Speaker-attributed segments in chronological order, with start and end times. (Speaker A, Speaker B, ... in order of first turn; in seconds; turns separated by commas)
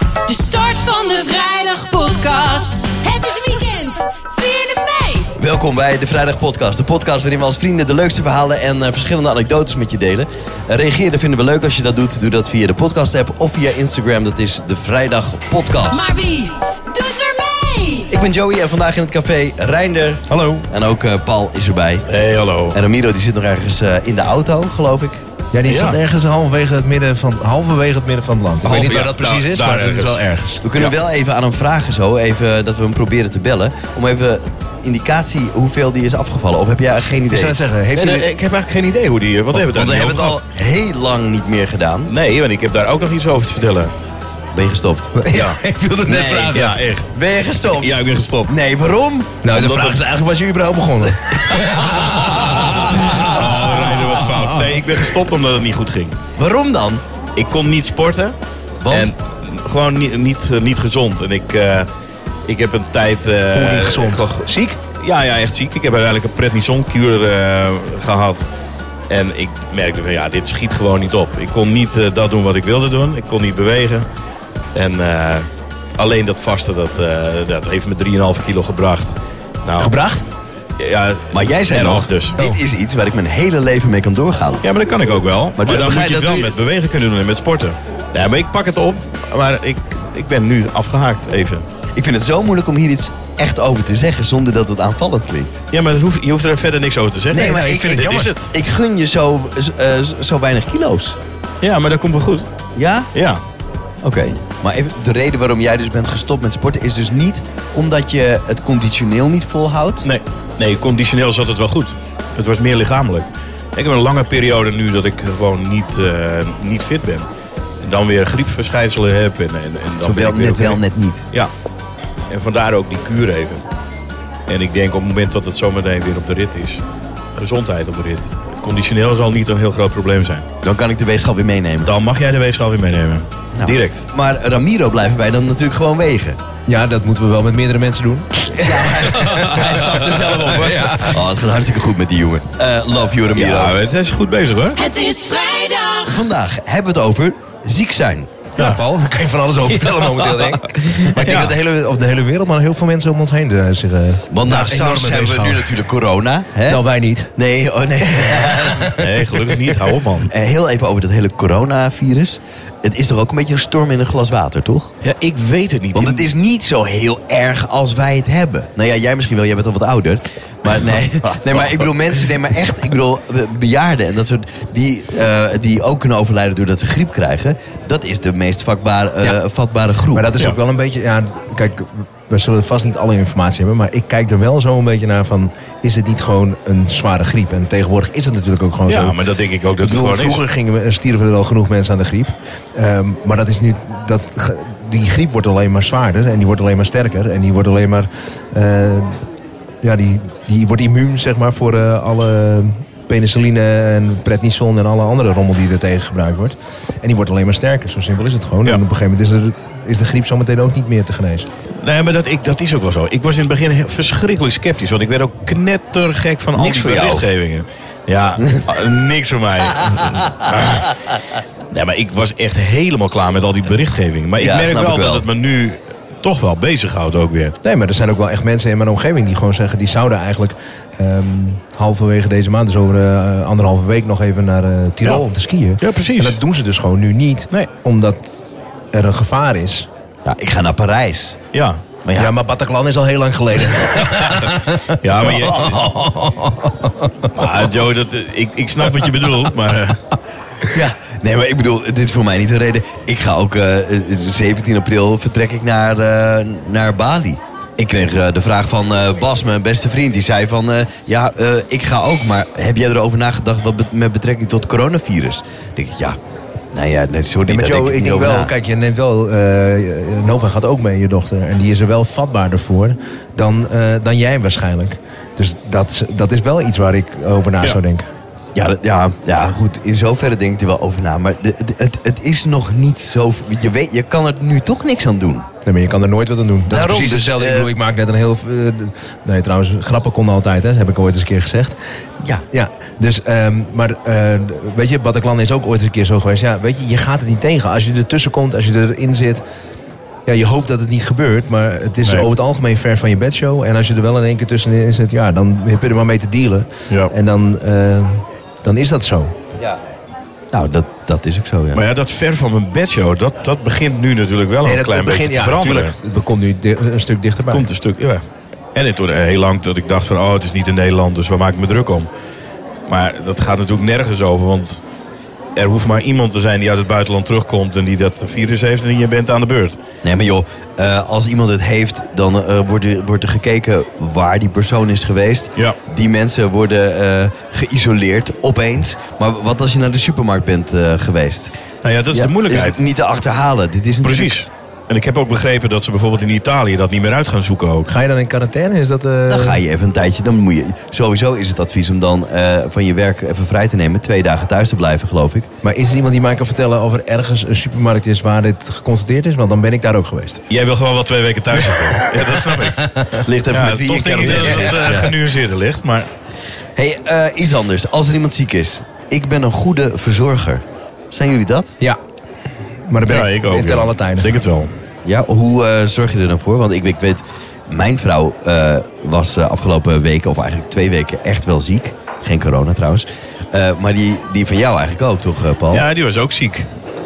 Speaker A: 0.3-5.3, Speaker B: 5.4-16.1, Speaker A: 15.9-18.1, Speaker B: 18.1-22.1, Speaker C: 20.3-20.6, Speaker D: 22.1-22.8, Speaker B: 22.7-25.2, Speaker C: 25.5-30.6, Speaker D: 25.6-26.0, Speaker D: 28.6-31.0, Speaker B: 28.7-29.1, Speaker B: 30.6-37.6, Speaker C: 37.3-38.3, Speaker D: 37.9-40.4, Speaker B: 39.5-42.1, Speaker D: 42.1-43.9, Speaker B: 44.5-45.1, Speaker C: 45.1-46.8, Speaker D: 45.3-45.6, Speaker B: 46.0-49.6, Speaker D: 46.1-47.1, Speaker D: 47.7-48.5, Speaker C: 49.4-55.0, Speaker D: 49.5-50.0, Speaker D: 51.8-56.2, Speaker B: 56.4-57.0, Speaker D: 57.4-58.4, Speaker B: 58.8-59.1, Speaker D: 58.9-61.9, Speaker D: 62.5-68.4, Speaker C: 63.5-64.8, Speaker D: 69.1-74.1, Speaker D: 74.7-79.1, Speaker D: 79.7-80.0, Speaker C: 79.8-80.2, Speaker D: 80.8-82.4, Speaker B: 81.3-84.6, Speaker D: 84.6-91.7, Speaker B: 85.6-86.5, Speaker B: 92.0-95.6, Speaker D: 95.7-98.5, Speaker B: 97.3-101.2, Speaker C: 97.3-98.3, Speaker D: 101.6-102.5, Speaker B: 102.8-103.1, Speaker D: 103.1-103.4, Speaker B: 104.0-110.1, Speaker D: 110.0-117.2, Speaker D: 117.8-121.5, Speaker B: 120.0-121.3, Speaker D: 122.3-123.6, Speaker D: 124.5-126.8, Speaker D: 127.3-130.5, Speaker B: 130.6-131.9, Speaker D: 131.8-134.0, Speaker B: 133.6-136.4, Speaker C: 136.7-141.3, Speaker B: 138.6-143.8, Speaker D: 139.1-140.0, Speaker D: 143.3-144.8, Speaker A: 144.8-146.3, Speaker B: 146.1-148.3, Speaker C: 148.6-155.8, Speaker D: 149.8-151.6, Speaker B: 151.2-151.4, Speaker B: 154.3-156.8, Speaker C: 156.7-157.3, Speaker B: 157.3-159.1, Speaker C: 158.2-159.1, Speaker D: 159.0-160.3, Speaker B: 160.3-164.9, Speaker D: 165.0-166.3, Speaker B: 165.9-180.3, Speaker C: 180.1-189.2, Speaker D: 188.9-190.4, Speaker C: 189.8-199.2, Speaker C: 199.8-211.5, Speaker D: 211.8-220.9, Speaker B: 216.6-217.3, Speaker B: 220.5-220.8, Speaker D: 221.7-227.6, Speaker B: 224.4-225.3, Speaker C: 227.6-238.4, Speaker D: 235.8-236.4, Speaker C: 238.9-239.9, Speaker B: 240.2-241.4, Speaker D: 241.5-241.8, Speaker B: 242.1-242.3, Speaker C: 242.2-247.3, Speaker D: 244.2-244.5, Speaker D: 245.0-245.8, Speaker B: 245.3-246.0, Speaker D: 247.3-250.0, Speaker B: 250.7-266.2, Speaker B: 266.7-268.5, Speaker C: 267.5-278.1, Speaker B: 278.6-285.5, Speaker C: 285.6-291.8, Speaker B: 286.7-287.7, Speaker C: 292.5-299.4, Speaker C: 300.3-309.4, Speaker B: 310.5-311.8, Speaker D: 311.7-315.9, Speaker C: 314.6-317.7, Speaker D: 317.5-318.2, Speaker D: 318.8-322.1, Speaker D: 322.9-324.8, Speaker D: 325.6-329.8, Speaker B: 330.0-341.5, Speaker D: 341.8-342.8, Speaker B: 342.1-344.4, Speaker D: 344.0-347.9, Speaker C: 347.9-349.6, Speaker B: 349.3-355.5, Speaker C: 355.6-360.4, Speaker D: 360.5-366.1, Speaker C: 361.7-363.2, Speaker B: 363.2-365.1, Speaker C: 364.3-365.1, Speaker B: 366.8-371.8, Speaker C: 372.9-374.4, Speaker D: 373.1-374.7, Speaker B: 375.1-385.9, Speaker D: 385.7-386.7